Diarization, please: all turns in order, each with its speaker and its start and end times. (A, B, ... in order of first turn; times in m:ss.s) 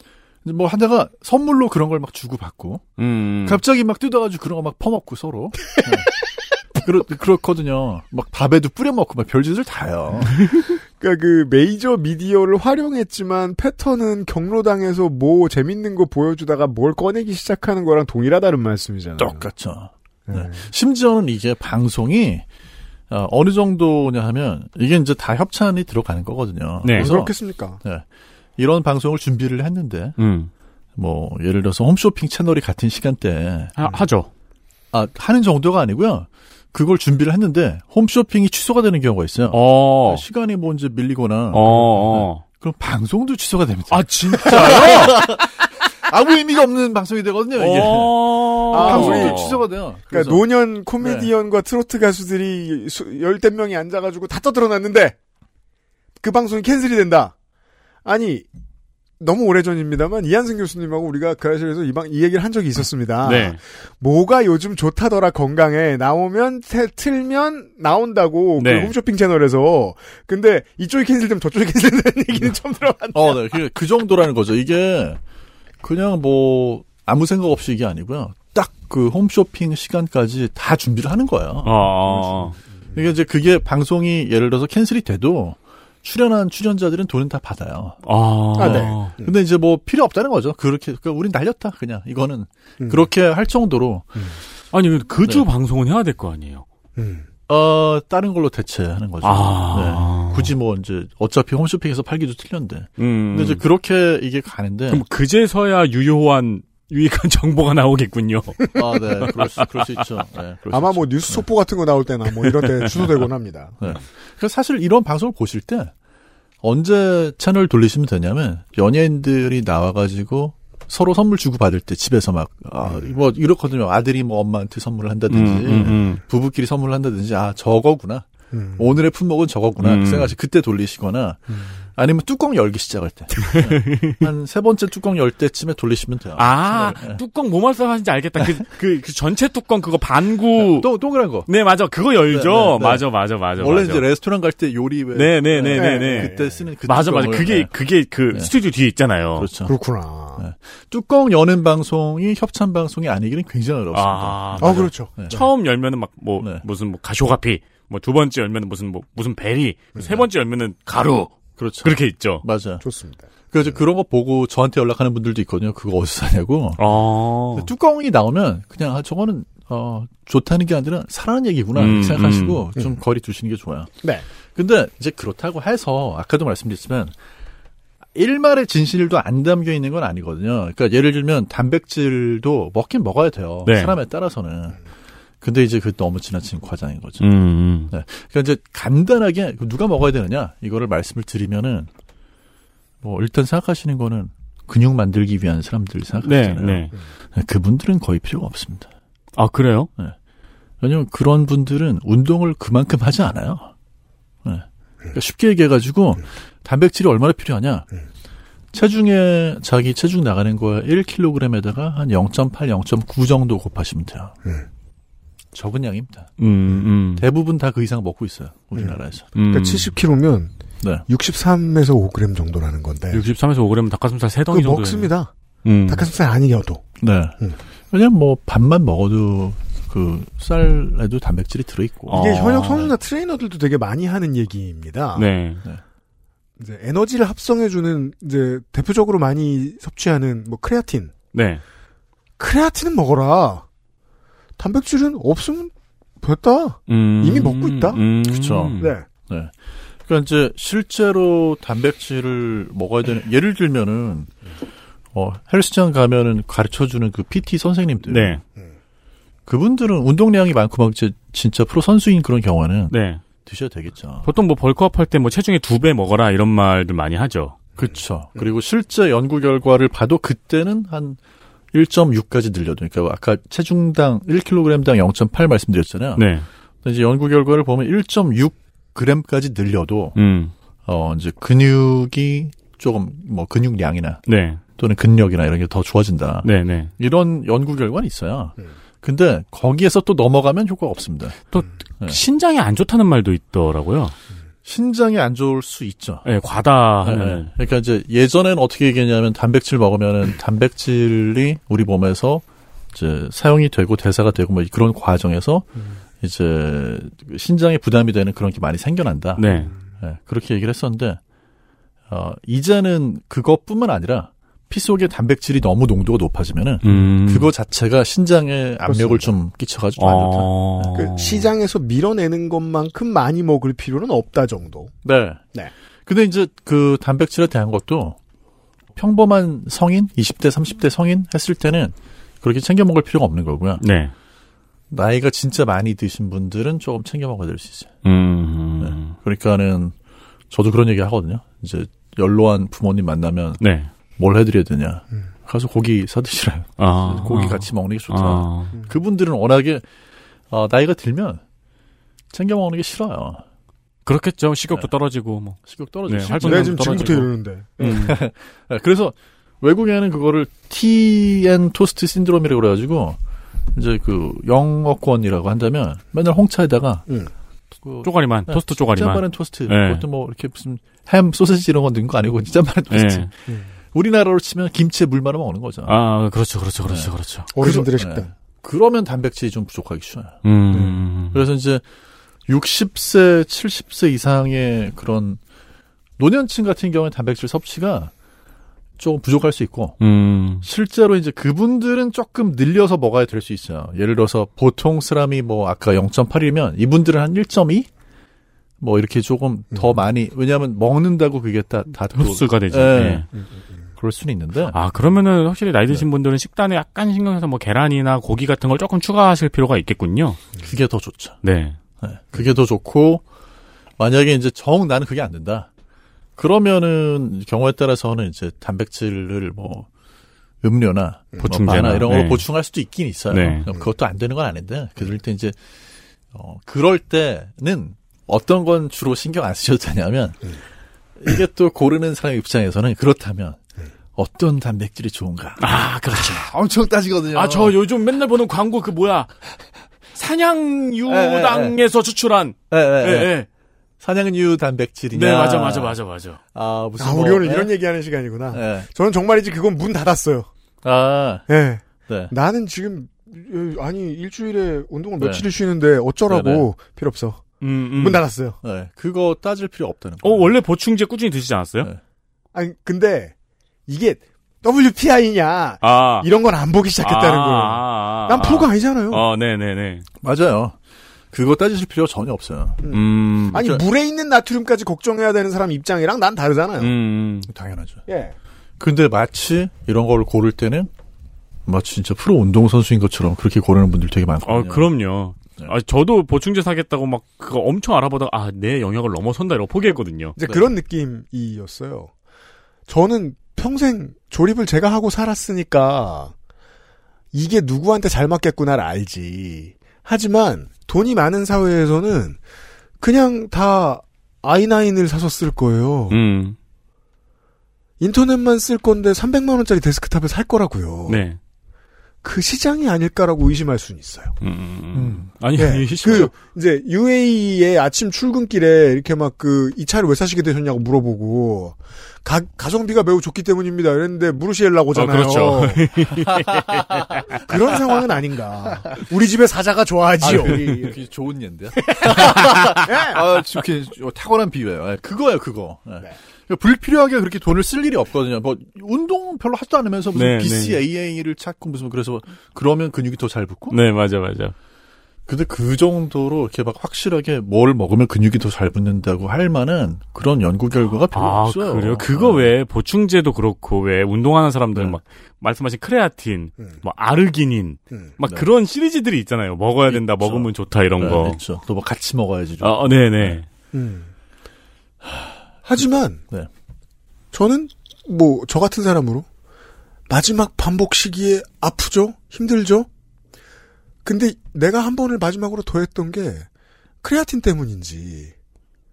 0:00.4-0:06.1 A
0:03.0-0:03.6 B
0:06.8-0:10.3 A
0:11.0-0:19.4 C
0:19.2-0:22.4 A
0:20.3-0:20.6 C
0:23.1-0:28.0 A
0:26.8-0:27.1 B
0:27.0-0:27.8 C
0:28.6-0:30.2 A
0:30.2-0:30.5 B
0:31.0-0:33.7 A
0:33.8-0:34.3 B
0:34.9-0:50.4 A
0:39.5-0:40.2 B
0:41.5-0:42.4 B
0:43.9-0:45.2 B
0:47.6-0:49.6 B
0:48.7-0:49.6 C
0:50.1-0:55.2 C
0:51.0-0:51.3 A
0:56.2-0:57.3 C
0:58.0-0:58.5 C
0:59.2-1:13.4 C
1:03.2-1:03.6 B
1:08.6-1:08.9 B
1:13.1-1:15.2 A
1:15.8-1:28.0 A
1:21.6-1:22.6 B
1:28.0-1:29.1 B
1:28.6-1:34.2 A
1:28.6-1:29.3 C
1:32.8-1:33.1 C
1:34.7-1:36.6 B
1:37.0-1:37.3 C
1:37.5-1:45.0 A
1:39.2-1:40.5 B
1:43.0-1:43.6 B
1:44.9-1:49.7 B
1:48.7-1:51.4 A
1:50.7-1:54.0 C
1:53.8-1:55.9 A
1:56.6-2:08.2 A
2:02.8-2:03.1 C
2:05.3-2:06.2 B
2:08.5-2:08.9 C
2:08.8-2:17.2 A
2:09.8-2:10.3 B
2:13.4-2:14.2 B
2:16.4-2:20.9 B
2:20.6-2:21.5 A
2:21.4-2:24.0 B
2:22.2-2:27.7 A
2:25.1-2:29.5 B
2:25.7-2:26.7 C
2:29.4-2:29.7 A
2:29.6-2:30.4 C
2:30.4-2:35.4 A
2:33.9-2:42.4 B
2:34.6-2:35.5 C
2:36.4-2:36.6 A
2:40.0-2:40.2 C
2:41.6-2:42.8 A
2:42.8-2:43.8 C
2:43.5-2:46.8 A
2:46.8-2:47.7 B
2:47.5-2:53.9 A
2:51.8-2:52.6 B
2:54.5-2:57.1 A
2:58.1-3:04.8 A
3:03.6-3:04.0 B
3:05.4-3:07.2 A
3:07.2-3:07.9 B
3:07.9-3:11.9 A
3:13.0-3:18.9 A
3:16.2-3:16.9 B
3:19.4-3:19.9 B
3:20.8-3:23.7 A
3:24.4-3:27.9 A
3:28.7-3:34.4 A
3:35.5-3:36.3 A
3:36.4-3:37.2 B
3:37.1-3:39.3 A
3:38.7-3:40.5 C
3:39.4-3:39.9 B
3:41.1-3:43.2 C
3:43.1-3:45.1 B
3:44.5-3:45.3 C
3:45.6-3:46.1 B
3:45.9-3:46.8 C
3:47.0-3:47.4 A
3:47.9-3:52.2 A
3:52.1-3:52.9 B
3:52.1-3:55.2 C
3:55.1-3:55.6 B
3:56.6-4:01.1 C
4:01.3-4:01.6 B
4:02.4-4:03.6 C
4:04.6-4:08.0 C
4:06.9-4:08.9 B
4:08.2-4:08.7 A
4:08.8-4:09.0 C
4:09.3-4:09.5 A
4:10.0-4:14.3 A
4:15.1-4:18.4 A
4:18.1-4:18.4 B
4:19.5-4:24.3 A
4:22.9-4:23.2 B
4:24.2-4:27.6 B
4:27.8-4:31.2 A
4:27.8-4:28.4 C
4:31.7-4:36.2 A
4:36.2-4:36.5 B
4:36.8-4:40.2 A
4:40.2-4:40.5 B
4:40.8-4:44.2 A
4:44.3-4:44.6 B
4:44.8-4:51.5 A
4:46.4-4:46.9 B
4:51.5-4:54.2 B
4:54.6-4:56.2 A
4:56.2-4:57.5 B
4:57.0-5:05.7 A
5:06.2-5:11.2 A
5:09.4-5:09.7 B
5:12.1-5:21.0 A
5:16.8-5:17.5 B
5:18.9-5:19.3 C
5:20.0-5:21.5 B
5:20.9-5:24.9 C
5:25.0-5:25.4 A
5:26.0-5:28.2 A
5:29.0-5:33.8 A
5:33.8-5:34.1 B
5:34.9-5:37.9 A
5:38.0-5:39.2 B
5:38.8-5:39.9 A
5:40.5-5:43.6 A
5:43.6-5:43.9 B
5:44.2-5:49.8 A
5:46.8-5:48.7 B
5:50.5-5:51.4 A
5:52.3-5:53.4 A
5:54.0-5:57.3 B
5:55.6-5:57.3 A
5:56.4-5:58.1 C
5:57.8-6:03.2 A
5:57.8-5:58.1 B
6:03.7-6:07.0 A
6:07.8-6:13.4 A
6:08.0-6:10.0 B
6:12.9-6:13.3 B
6:13.9-6:16.0 A
6:15.9-6:17.5 B
6:16.8-6:20.4 A
6:17.6-6:18.3 C
6:20.4-6:21.4 B
6:21.3-6:21.8 A
6:22.5-6:25.4 A
6:26.2-6:28.1 A
6:29.0-6:30.0 A
6:30.0-6:30.6 B
6:30.6-6:37.9 A
6:38.8-6:43.3 A
6:39.7-6:40.0 C
6:42.1-6:43.3 B
6:44.0-6:44.8 A
6:44.7-6:50.4 B
6:50.6-6:51.4 A
6:51.4-6:51.8 B
6:52.0-6:53.2 A
6:54.0-6:55.7 A
6:56.4-6:59.9 A
7:00.6-7:05.6 A
7:01.4-7:02.4 B
7:03.3-7:03.7 B
7:06.3-7:10.4 A
7:11.2-7:13.6 A
7:14.2-7:17.8 A
7:15.6-7:16.5 B
7:17.3-7:19.3 B
7:20.1-7:23.5 B
7:21.1-7:21.8 A
7:22.7-7:23.4 A
7:24.0-7:26.0 A
7:25.1-7:26.4 B
7:26.5-7:27.7 A
7:27.0-7:30.5 C
7:28.5-7:28.9 A
7:30.8-7:31.5 A
7:31.5-7:38.6 C
7:32.1-7:32.3 A
7:35.2-7:35.4 A
7:36.3-7:36.6 A
7:37.6-7:38.2 B
7:38.6-7:40.5 A
7:40.2-7:41.9 B
7:42.5-7:43.3 C
7:43.9-7:49.2 C
7:45.8-7:46.3 B
7:47.0-7:50.0 B
7:50.2-7:50.8 A
7:51.3-7:52.9 A
7:52.8-7:56.9 C
7:52.9-7:53.7 B
7:56.8-7:57.5 B
7:57.5-7:58.0 A
7:58.1-7:58.3 C
7:58.8-8:00.9 A
8:01.6-8:04.9 A
8:04.4-8:10.4 B
8:10.4-8:12.1 C
8:12.9-8:16.3 C
8:17.3-8:22.4 C
8:23.0-8:26.2 C
8:26.1-8:26.6 B
8:28.0-8:31.2 C
8:31.1-8:31.4 B
8:32.2-8:34.3 C
8:34.4-8:36.3 B
8:34.9-8:35.3 A
8:35.6-8:45.8 C
8:44.9-8:47.4 B
8:47.3-8:50.9 C
8:50.2-9:03.8 A
8:51.9-8:53.2 C
9:00.1-9:00.8 B
9:03.7-9:04.5 B
9:05.3-9:12.5 A
9:11.1-9:21.4 B
9:18.2-9:18.5 A
9:19.9-9:23.4 A
9:22.6-9:23.4 B
9:23.7-9:24.1 C
9:25.0-9:25.4 A
9:25.6-9:26.2 C
9:27.3-9:29.2 C
9:30.1-9:32.9 C
9:34.0-9:36.5 C
9:37.0-9:38.3 C